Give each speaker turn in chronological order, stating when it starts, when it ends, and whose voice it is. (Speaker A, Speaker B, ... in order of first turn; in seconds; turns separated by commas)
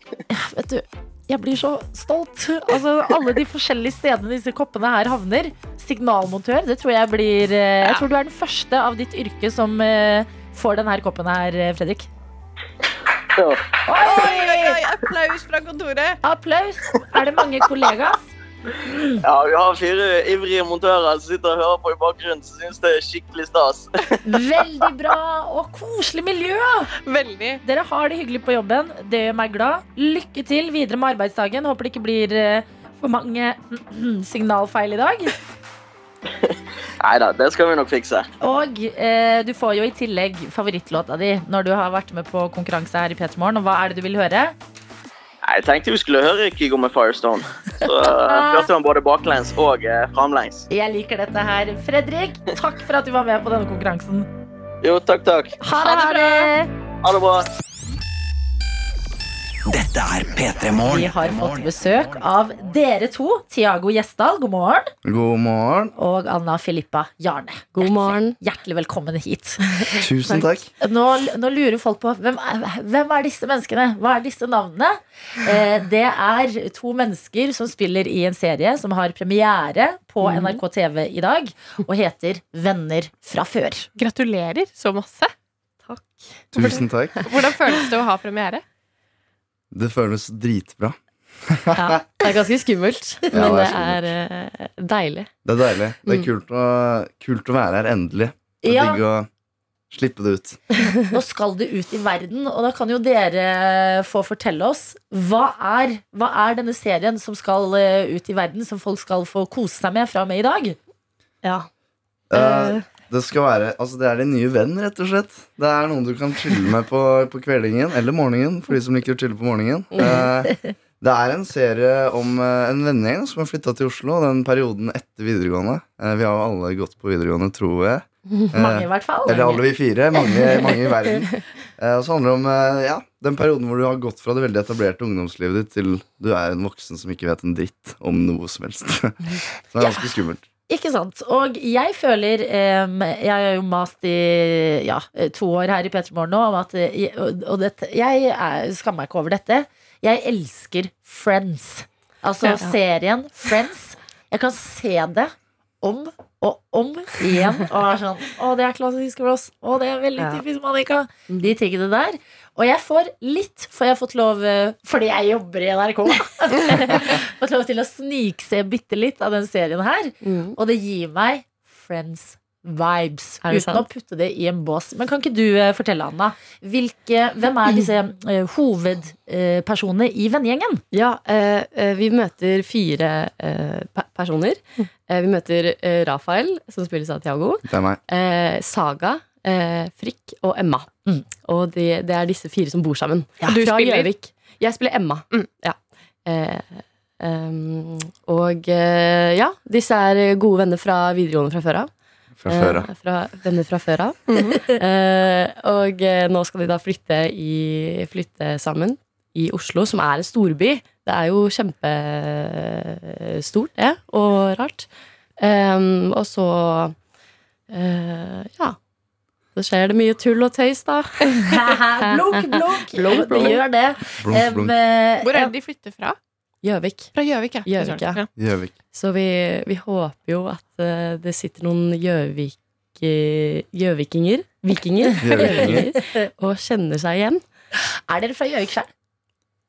Speaker A: 0.3-12.1, Speaker B: 13.3-13.6, Speaker A: 13.9-14.8, Speaker C: 14.0-16.2, Speaker A: 16.2-18.3, Speaker A: 18.8-19.2, Speaker B: 19.2-24.2, Speaker A: 24.2-26.9, Speaker C: 27.0-27.6, Speaker A: 27.6-35.4, Speaker B: 37.0-38.3, Speaker A: 38.4-44.6, Speaker B: 45.5-50.7, Speaker A: 47.9-48.7, Speaker A: 50.7-54.3, Speaker B: 54.8-55.6, Speaker A: 55.6-56.7, Speaker C: 55.8-56.5, Speaker B: 57.0-57.5, Speaker D: 59.7-61.7, Speaker A: 60.9-64.9, Speaker E: 65.0-65.9, Speaker A: 66.0-69.7, Speaker F: 67.7-68.4, Speaker E: 69.9-70.7, Speaker A: 70.3-83.9, Speaker F: 80.2-80.6, Speaker C: 84.0-85.3, Speaker F: 85.8-86.8, Speaker E: 86.5-87.2, Speaker C: 86.6-88.6, Speaker E: 89.7-92.2, Speaker F: 91.8-95.3, Speaker E: 93.3-94.1, Speaker E: 95.5-99.3, Speaker A: 98.6-99.0, Speaker E: 99.9-100.6, Speaker A: 101.0-110.8, Speaker F: 111.4-111.7, Speaker E: 112.3-140.4, Speaker F: 112.3-112.9, Speaker F: 119.9-120.3, Speaker A: 128.5-129.6, Speaker F: 130.2-131.4, Speaker A: 140.7-180.8, Speaker F: 170.2-170.6, Speaker F: 173.5-173.8, Speaker F: 180.9-190.9, Speaker E: 187.7-188.0, Speaker F: 191.4-201.9, Speaker C: 193.5-194.1, Speaker E: 202.4-202.9, Speaker F: 202.5-217.0, Speaker C: 204.3-204.6, Speaker F: 217.7-218.8, Speaker F: 219.6-223.6, Speaker A: 221.5-225.5, Speaker E: 224.2-224.8, Speaker C: 225.2-226.2, Speaker F: 226.6-228.2, Speaker C: 227.1-228.3, Speaker E: 228.3-228.8, Speaker F: 228.9-237.4, Speaker E: 235.2-235.9, Speaker A: 235.4-235.8, Speaker A: 237.9-238.9